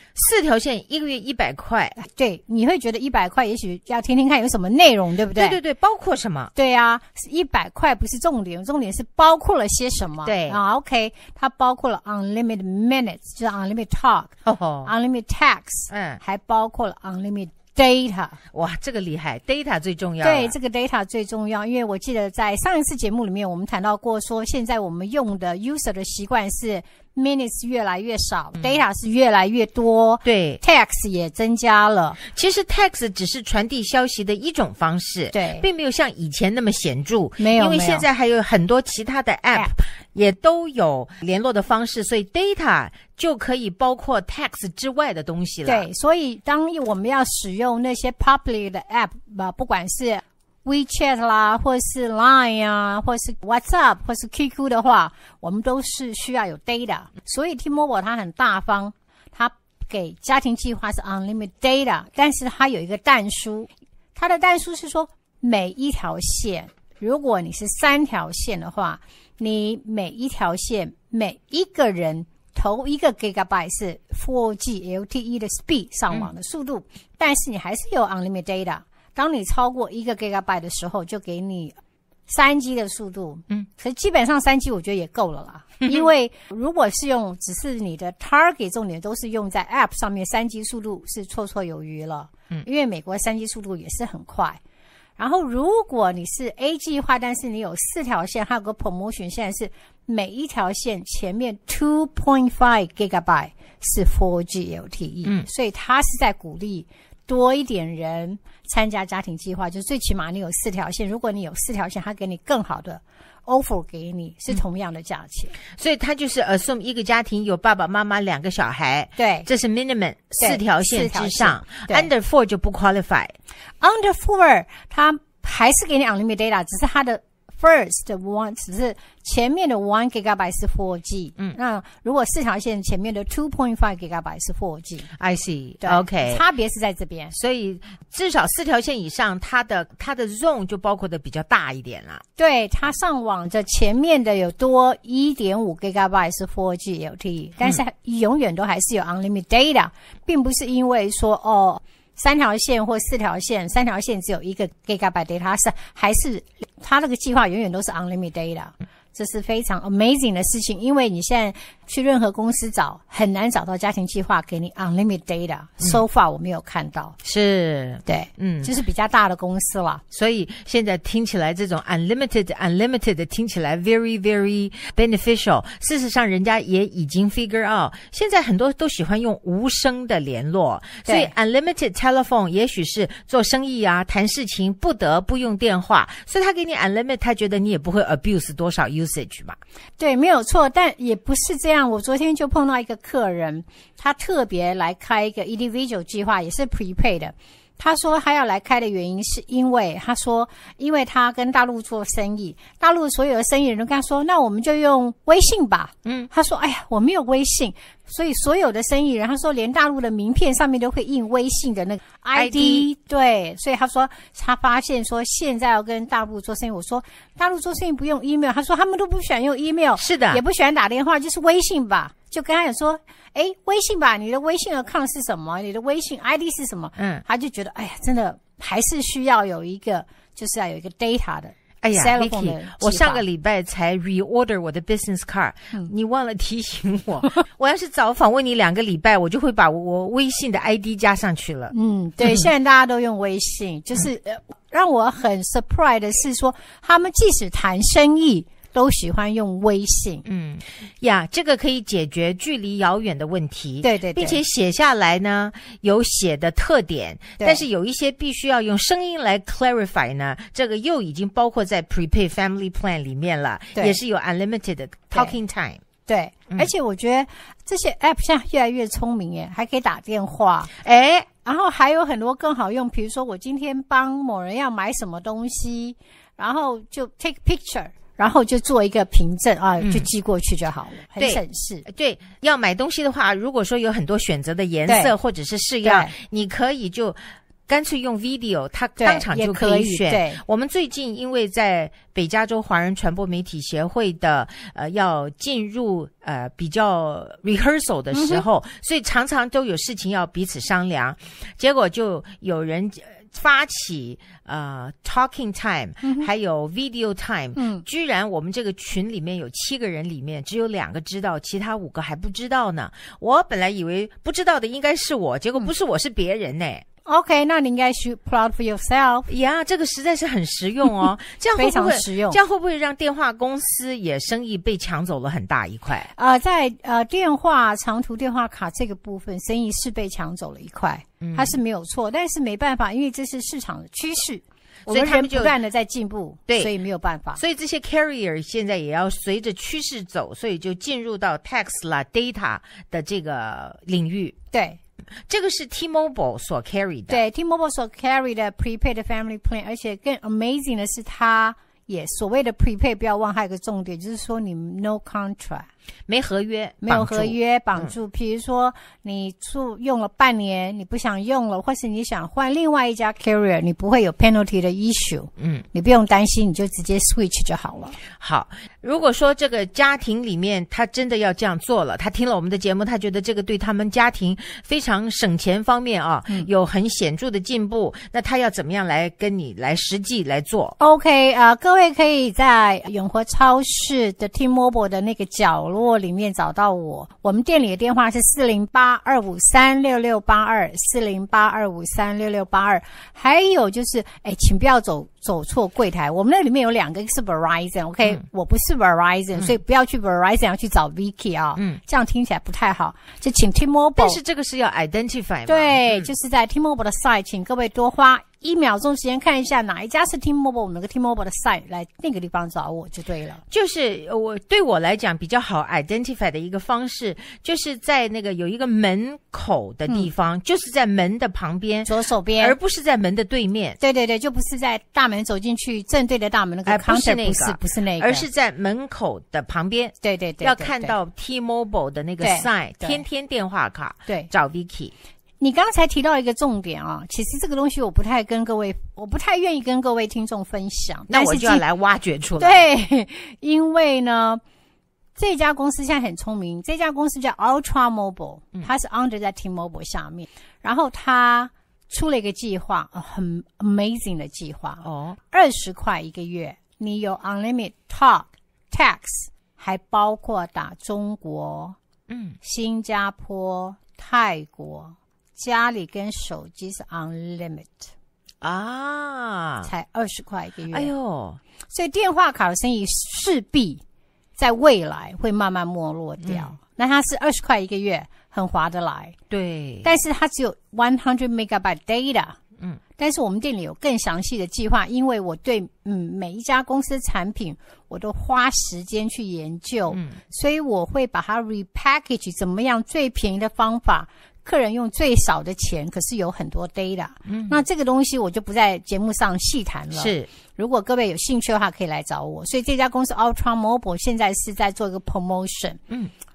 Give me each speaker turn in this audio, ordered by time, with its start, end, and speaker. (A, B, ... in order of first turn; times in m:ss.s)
0:00.2-0:02.0 A
0:02.0-0:05.6 B
0:05.4-0:06.5 A
0:06.6-0:18.4 B
0:10.2-0:10.6 A
0:14.5-0:14.9 A
0:15.9-0:16.2 A
0:18.5-0:20.6 A
0:20.2-0:32.2 B
0:28.6-0:28.8 A
0:30.2-0:30.6 A
0:32.3-0:45.9 A
0:35.3-0:35.7 B
0:37.4-0:38.1 B
0:45.6-1:21.8 B
1:22.3-1:34.6 B
1:35.2-1:55.6 B
1:55.7-2:03.3 A
1:59.2-1:59.5 B
2:00.4-2:02.1 B
2:03.8-2:15.1 B
2:15.2-2:16.4 A
2:15.8-2:17.3 B
2:17.3-2:22.2 A
2:22.4-2:47.2 B
2:47.2-2:48.7 A
2:48.1-2:50.0 B
2:50.1-3:09.6 A
3:01.1-3:01.3 B
3:10.0-3:53.2 B
3:26.0-3:26.3 A
3:32.3-3:32.9 A
3:40.0-3:40.4 A
3:47.0-3:47.2 A
3:51.8-4:01.7 A
4:01.7-4:10.2 B
4:10.2-4:25.8 A
4:13.8-4:14.4 B
4:17.4-4:17.6 B
4:26.1-4:30.7 B
4:30.8-4:31.3 A
4:31.4-4:41.9 B
4:39.8-4:40.1 A
4:41.2-5:16.8 A
4:44.9-4:45.1 B
4:45.8-4:46.1 B
4:49.0-4:50.4 B
4:58.1-4:58.4 B
5:06.0-5:06.3 B
5:07.6-5:07.8 B
5:17.1-5:19.3 B
5:19.3-5:26.1 A
5:21.6-5:22.4 B
5:26.2-5:37.4 B
5:31.2-5:31.6 A
5:34.9-5:35.5 A
5:36.5-5:36.7 A
5:37.4-5:44.4 A
5:44.5-5:44.8 B
5:45.3-5:47.2 A
5:47.1-5:55.7 B
5:56.1-5:57.9 A
5:56.8-6:08.0 B
6:08.2-6:20.8 A
6:20.8-6:44.2 B
6:44.0-6:46.1 A
6:45.5-6:53.4 B
6:53.5-7:03.8 A
7:01.8-7:02.6 B
7:03.8-7:08.3 B
7:06.7-7:14.9 A
7:10.0-7:11.0 B
7:12.2-7:13.0 B
7:15.4-7:21.6 B
7:21.1-7:22.7 A
7:22.4-7:24.4 B
7:25.2-7:41.8 B
7:34.8-7:35.2 A
7:42.1-7:42.4 A
7:42.4-7:47.9 B
7:48.4-7:49.7 A
7:49.6-7:50.9 B
7:50.7-7:51.4 A
7:51.7-7:53.8 B
7:54.4-7:59.2 B
7:56.2-7:56.6 A
7:59.3-7:59.9 A
7:59.8-8:02.4 B
8:03.0-8:25.8 B
8:09.9-8:10.2 A
8:17.3-8:17.6 A
8:20.0-8:20.3 A